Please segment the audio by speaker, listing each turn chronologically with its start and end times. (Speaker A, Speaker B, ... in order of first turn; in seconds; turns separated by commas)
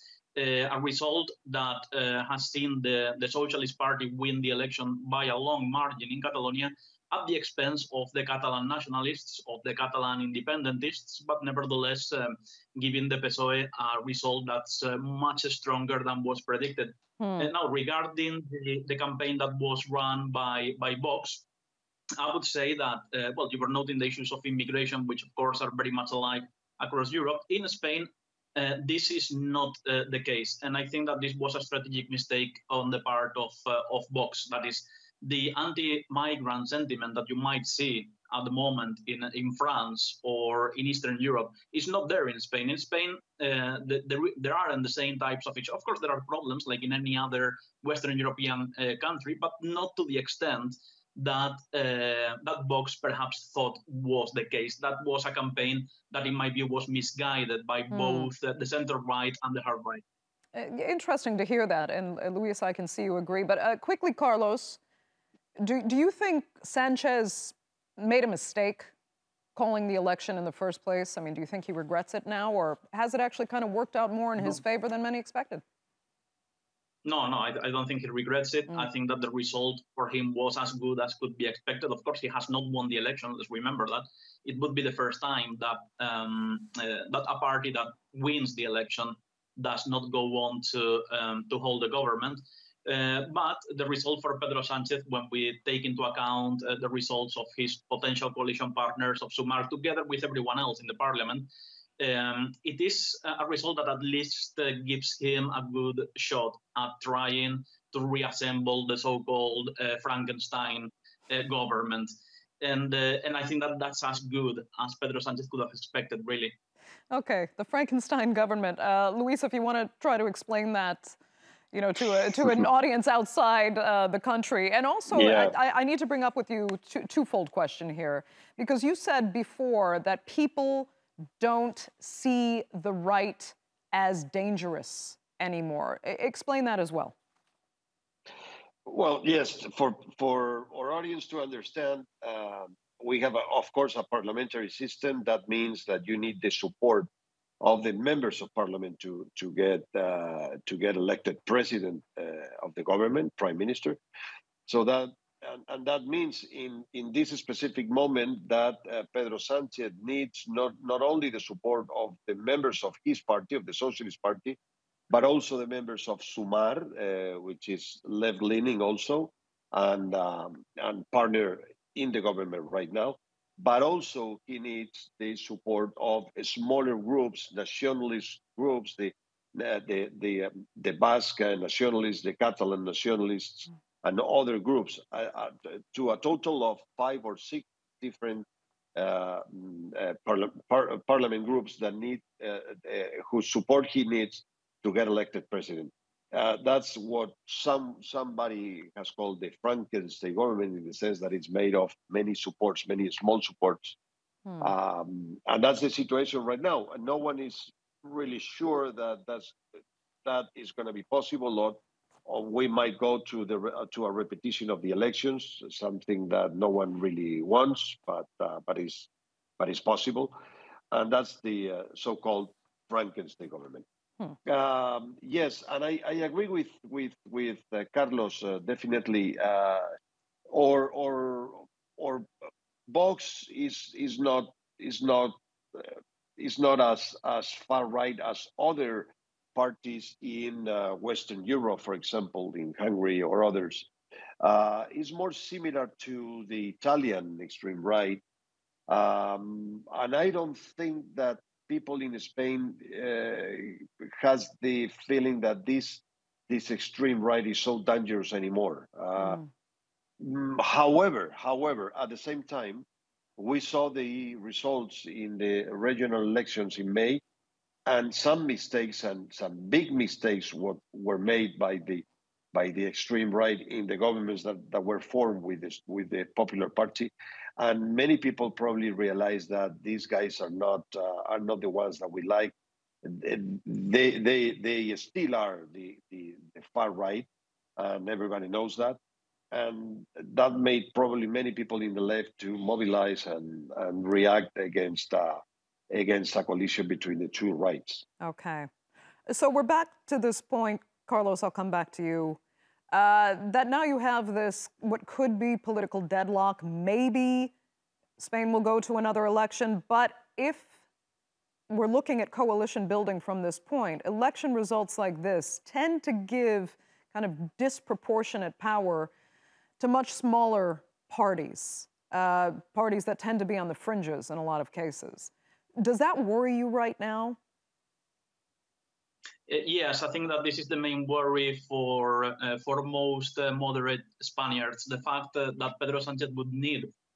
Speaker A: 0.4-21.4, Speaker B: 17.2-17.5, Speaker A: 22.2-60.0, Speaker B: 57.9-58.3, Speaker B: 60.5-64.8, Speaker B: 65.6-68.9, Speaker B: 69.5-75.6, Speaker A: 77.0-116.6, Speaker B: 117.1-121.2, Speaker B: 121.7-137.2, Speaker C: 125.1-125.6, Speaker C: 138.9-147.1, Speaker C: 147.6-154.0, Speaker C: 154.7-164.6, Speaker C: 165.1-204.0, Speaker B: 204.5-204.7, Speaker C: 204.6-209.6, Speaker C: 210.2-219.1, Speaker C: 219.6-220.4, Speaker C: 220.9-223.8, Speaker C: 224.4-229.9, Speaker C: 230.5-232.3, Speaker C: 232.9-243.9, Speaker C: 244.4-248.2, Speaker C: 248.9-259.4, Speaker B: 259.2-259.5, Speaker C: 260.2-262.9, Speaker C: 263.4-267.2, Speaker C: 267.9-289.0, Speaker C: 289.5-298.1, Speaker B: 298.2-298.7, Speaker B: 299.3-302.4, Speaker B: 302.9-307.5, Speaker B: 308.2-310.7, Speaker B: 311.7-319.1, Speaker B: 319.8-327.4, Speaker A: 329.5-336.9